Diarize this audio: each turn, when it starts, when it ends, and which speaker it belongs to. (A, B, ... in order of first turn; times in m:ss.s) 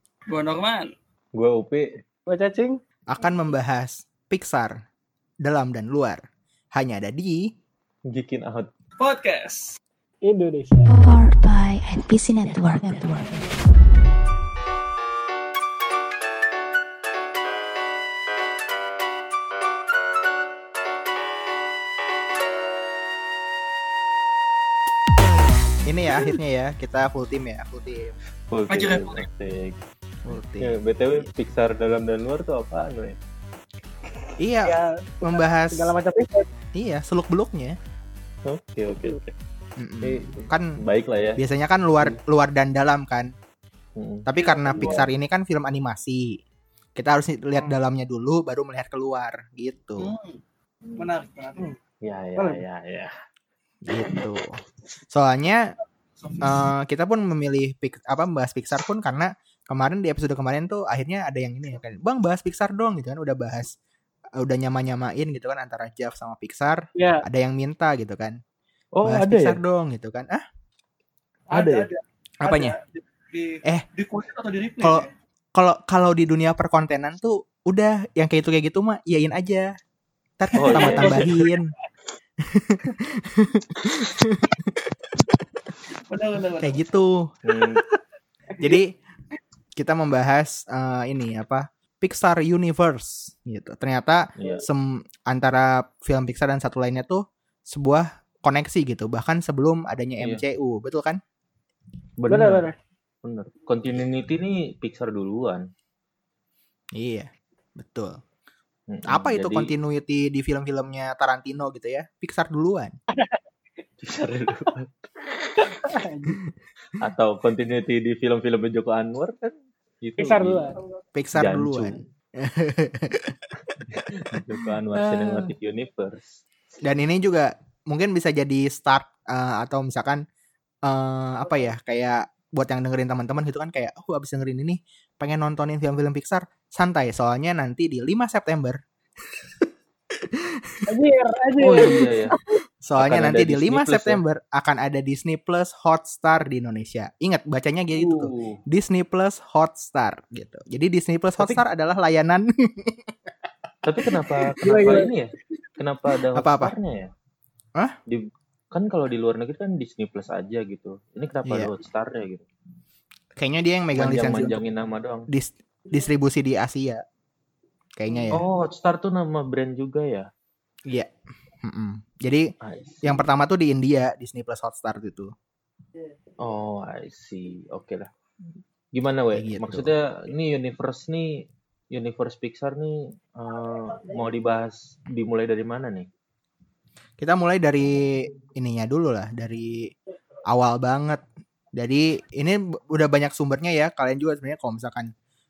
0:00.3-0:00.9 A
0:01.4-0:02.0 B
0:02.3-0:02.8 C
0:03.1-0:04.8 D
0:05.4-0:06.2 D
0:06.7-0:07.5 D
0:08.1-0:08.7 B
0:09.0-0:09.8 A
0:10.2-0:10.9 C
0:10.9-0:13.5 E
0:25.8-0:28.2 D
0:28.5-0:29.8 B
0:28.7-0:29.3 A
0:30.2-0:31.3 D
0:30.6-0:33.2 B
0:34.4-0:35.9 D
0:34.6-0:36.5 C
0:36.7-0:37.8 D
0:38.5-0:39.3 B
0:39.8-0:40.8 D
0:40.0-0:41.4 B
0:41.4-0:43.3 D
0:44.0-0:45.1 B
0:44.3-0:46.4 D
0:44.4-0:45.0 C
0:47.0-0:50.1 D
0:50.0-0:50.4 A
0:51.0-0:51.7 A
0:52.0-0:53.1 B
0:52.4-0:52.6 C
0:53.8-0:54.6 D
0:55.1-0:55.7 D
0:56.2-0:56.7 A
0:56.4-1:03.8 D
1:04.4-1:08.4 D
1:07.0-1:07.2 C
1:09.0-1:09.6 B
1:09.0-1:10.4 D
1:11.5-1:15.1 A
1:11.5-1:11.9 B
1:12.4-1:12.8 D
1:14.8-1:19.7 D
1:20.4-1:21.7 D
1:20.6-1:21.4 B
1:20.7-1:21.7 A
1:22.4-1:24.7 D
1:25.9-1:27.0 A
1:26.6-1:27.3 D
1:27.4-1:27.8 B
1:28.6-1:28.9 D
1:29.8-1:41.2 D
1:34.4-1:34.7 B
1:42.2-1:42.7 B
1:42.3-1:42.8 C
1:43.2-1:45.7 B
1:47.0-1:48.2 D
1:48.9-1:49.7 B
1:49.1-1:52.9 D
1:53.1-1:53.4 C
1:54.0-1:55.8 B
1:55.7-1:56.4 C
1:57.0-2:00.7 B
2:00.2-2:00.8 C
2:01.2-2:03.8 D
2:01.4-2:02.0 B
2:03.9-2:06.4 B
2:04.3-2:05.6 D
2:06.8-2:10.2 D
2:10.8-2:18.8 D
2:20.3-2:20.8 D
2:20.9-2:22.2 C
2:21.6-2:22.4 B
2:22.8-2:33.1 D
2:23.0-2:24.2 B
2:28.0-2:28.6 B
2:33.8-2:37.1 B
2:34.6-2:35.1 C
2:36.4-2:36.7 D
2:38.1-2:42.4 B
2:41.5-2:41.7 D
2:43.4-2:44.6 D
2:44.0-2:45.3 B
2:45.3-2:47.0 D
2:48.0-2:48.4 D
2:48.3-2:50.3 B
2:51.6-2:52.5 D
2:52.6-2:53.2 B
2:53.0-2:55.3 D
2:56.4-2:58.1 B
2:58.9-3:06.1 B
2:59.3-2:59.9 D
3:07.2-3:09.9 D
3:10.5-3:15.1 D